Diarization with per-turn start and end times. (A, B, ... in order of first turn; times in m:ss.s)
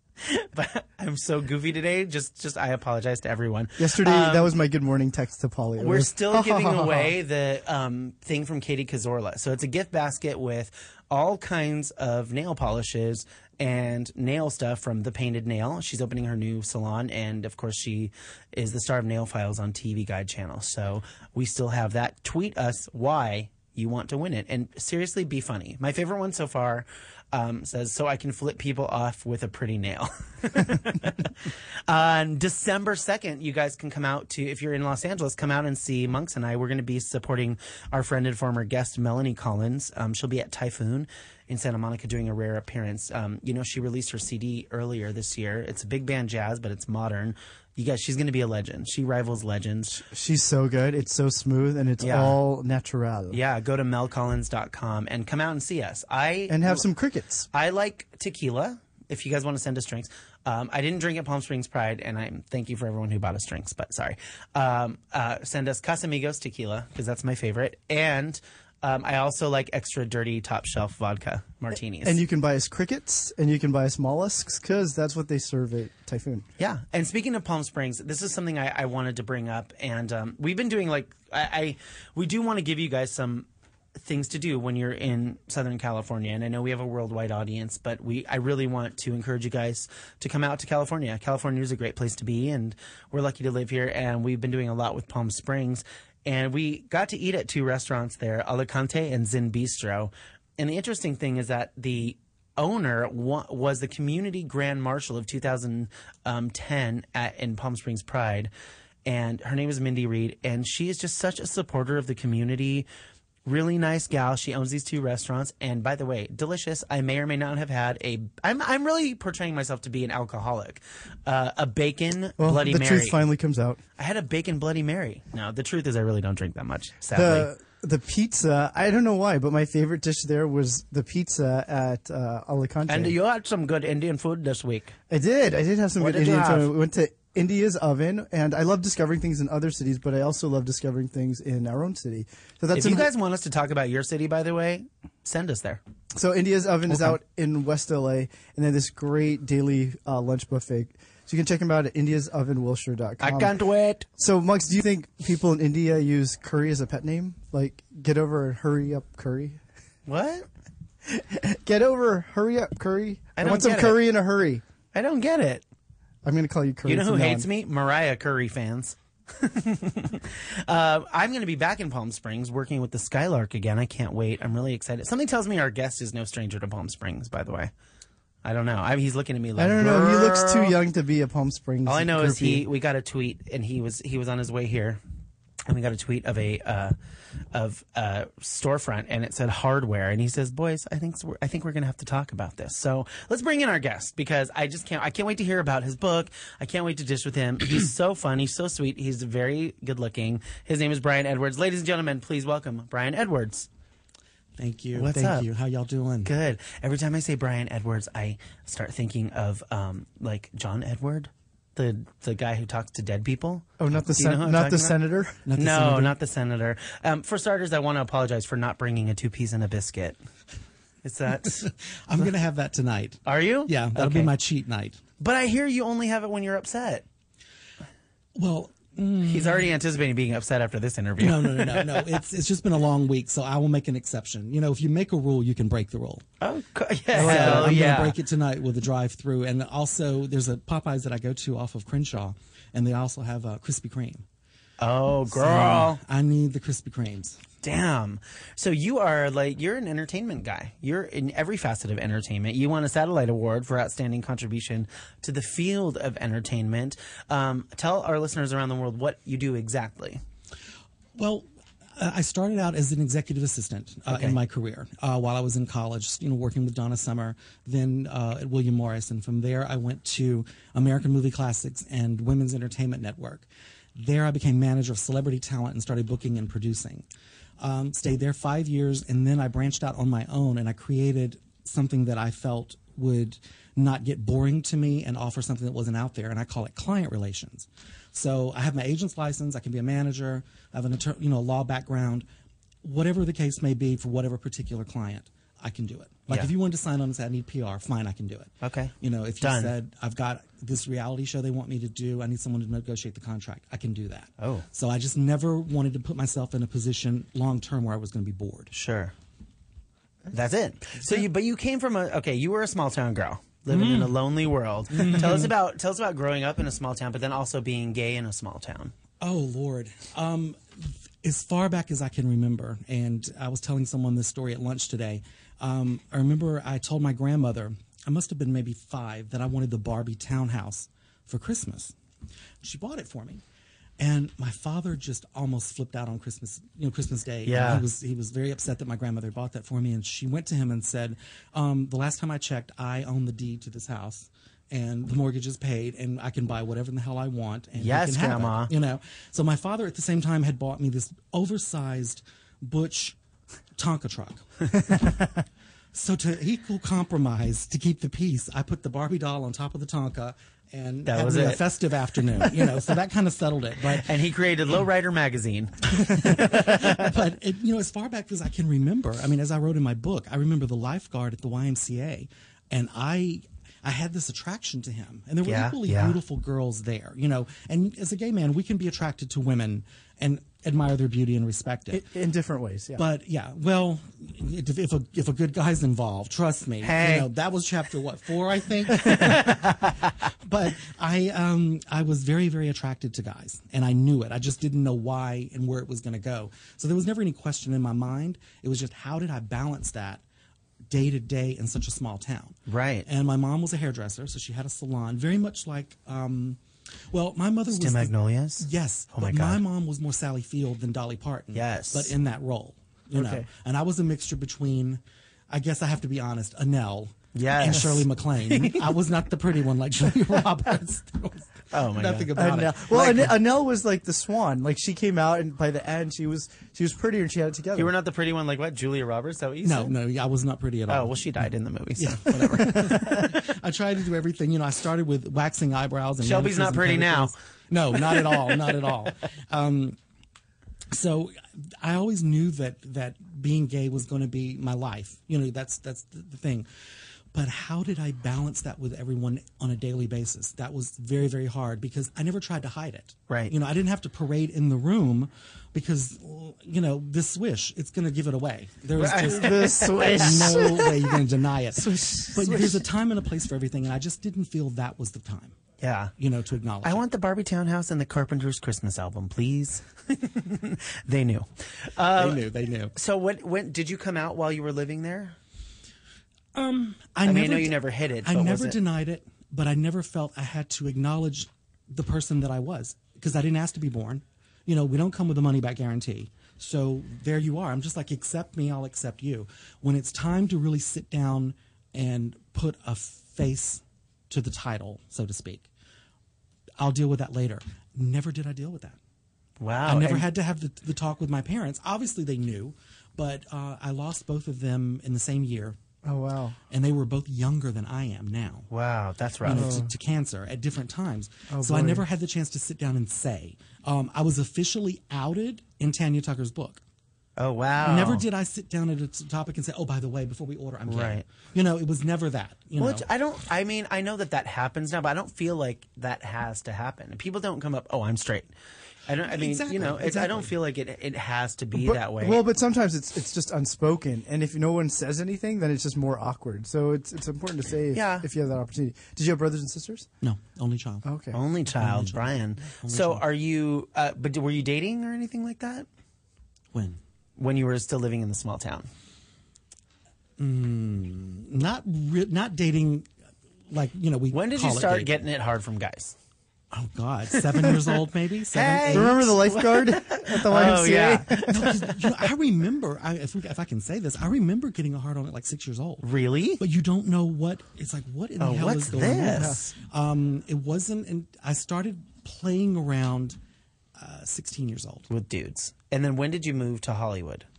0:00.2-0:04.5 A
0:03.8-0:07.1 B
0:05.8-0:50.0 A
0:50.0-0:53.4 B
0:52.0-0:52.4 A
0:53.3-0:56.9 A
0:56.5-0:57.5 B
0:57.5-1:12.2 A
1:12.0-1:16.4 B
1:16.6-1:48.5 A
1:49.0-1:52.9 A
1:53.4-2:03.2 A
2:02.4-2:03.8 B
2:04.0-2:07.5 A
2:07.1-2:13.2 B
2:12.9-2:14.9 A
2:15.1-2:23.1 B
2:16.0-2:16.7 A
2:22.7-2:25.8 A
2:26.1-2:33.5 B
2:26.9-2:27.2 A
2:33.2-2:34.0 A
2:34.2-2:39.6 B
2:40.1-2:40.5 A
2:41.0-2:44.6 B
2:43.4-2:44.0 A
2:44.9-2:45.6 A
2:46.2-2:47.5 B
2:46.8-2:57.7 A
2:58.4-3:00.7 A
2:59.6-3:02.6 B
3:01.8-3:05.0 A
3:05.7-3:06.9 A
3:07.5-3:23.7 A
3:24.6-3:26.3 C
3:24.9-3:25.5 A
3:26.2-3:35.0 A
3:33.8-3:35.4 B
3:35.4-3:36.1 C
3:35.6-3:40.2 A
3:41.0-3:41.7 A
3:41.4-3:45.0 C
3:43.2-3:44.3 A
3:45.2-3:47.0 A
3:48.4-3:49.7 C
3:49.3-3:52.2 A
3:51.2-3:56.2 C
3:56.4-3:58.1 A
3:57.1-4:04.2 C
4:04.8-4:06.0 A
4:05.3-4:07.4 C
4:07.6-4:20.2 A
4:21.2-4:37.1 C
4:24.1-4:24.4 A
4:37.6-4:52.2 C
4:52.8-5:08.7 C
4:58.6-4:59.7 A
5:04.4-5:04.6 A
5:08.7-5:09.1 A
5:10.3-5:18.9 A
5:11.0-5:11.2 C
5:13.7-5:14.2 C
5:14.9-5:15.5 C
5:19.2-5:31.9 C
5:32.6-5:33.4 C
5:34.0-5:53.2 C
5:37.4-5:37.8 A
5:47.8-5:48.7 A
5:53.8-5:55.2 C
5:55.9-6:04.1 C
6:01.0-6:01.6 A
6:02.4-6:02.7 A
6:04.0-6:07.1 A
6:06.0-6:22.0 C
6:15.4-6:16.2 A
6:21.9-6:23.0 B
6:23.0-6:40.2 C
6:26.8-6:27.3 A
6:29.1-6:29.7 A
6:40.9-6:46.6 C
6:42.7-6:43.0 A
6:47.1-7:03.3 C
6:47.7-6:49.6 A
6:51.5-6:52.1 A
6:53.1-6:53.5 B
6:57.3-6:58.9 A
7:01.7-7:02.3 A
7:02.3-7:07.9 B
7:07.8-7:09.9 A
7:09.6-7:20.0 C
7:10.9-7:13.4 A
7:16.2-7:17.3 A
7:18.0-7:18.7 A
7:20.9-7:26.7 C
7:27.3-7:45.6 C
7:39.0-7:40.8 A
7:39.1-7:41.1 B
7:41.8-7:42.8 B
7:45.8-7:46.1 A
7:46.2-7:47.0 C
7:46.8-7:52.4 A
7:52.1-7:52.9 C
7:52.9-7:55.4 A
7:56.5-8:15.7 C
7:57.2-7:58.8 A
8:16.8-8:19.0 C
8:19.6-8:20.3 A
8:19.8-8:25.8 C
8:26.0-8:26.6 B
8:26.7-8:28.7 C
8:28.7-8:29.7 A
8:29.4-8:36.8 C
8:29.4-8:29.9 B
8:31.5-8:32.0 B
8:37.4-8:38.2 A
8:37.8-8:43.0 C
8:40.9-8:41.2 A
8:42.8-8:48.5 A
8:49.0-8:52.4 A
8:49.3-8:50.5 C
8:51.7-9:00.1 B
8:57.9-8:58.3 A
9:00.2-9:01.0 C
9:01.0-9:01.4 B
9:01.3-9:05.9 A
9:01.8-9:03.2 C
9:06.7-9:07.0 C
9:07.4-9:08.9 A
9:10.4-9:13.1 C
9:13.7-9:15.1 C
9:14.3-9:16.2 A
9:16.7-9:19.4 C
9:17.4-9:17.8 A
9:18.5-9:22.0 A
9:18.9-9:21.7 B
9:21.4-9:26.1 C
9:26.0-9:26.6 A
9:26.6-9:33.4 C
9:28.4-9:29.6 A
9:29.3-9:29.6 B
9:34.0-9:35.1 C
9:35.1-9:37.4 A